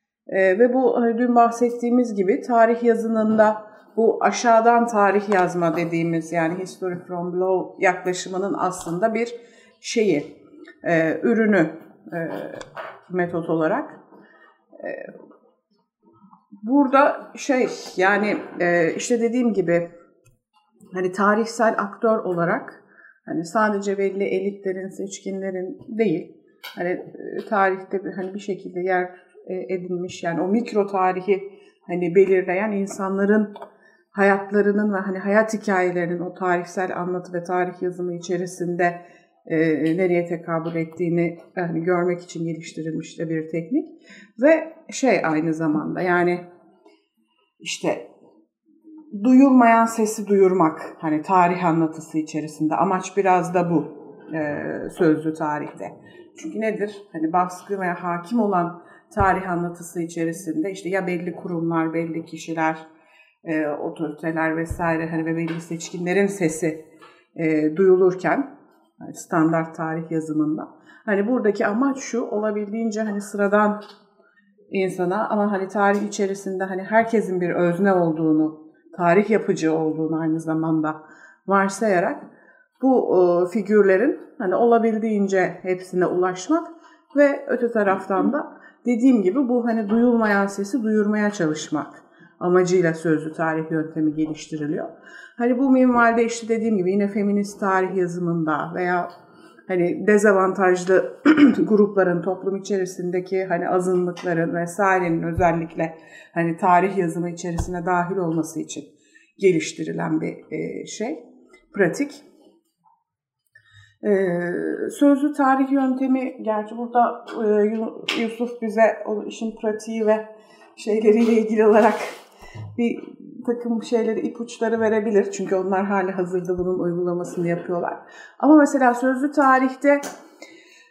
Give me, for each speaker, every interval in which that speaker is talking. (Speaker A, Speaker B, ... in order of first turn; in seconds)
Speaker A: 0.3-10.3, 10.8-14.0, 14.8-15.1, 16.6-19.9, 20.9-33.5, 34.1-46.4, 47.6-48.1, 49.1-62.9, 63.5-66.8, 67.4-68.5, 69.0-73.8, 74.7-82.3, 82.8-99.1, 99.7-108.9, 109.4-111.2, 111.7-112.2, 114.0-122.2, 122.8-130.0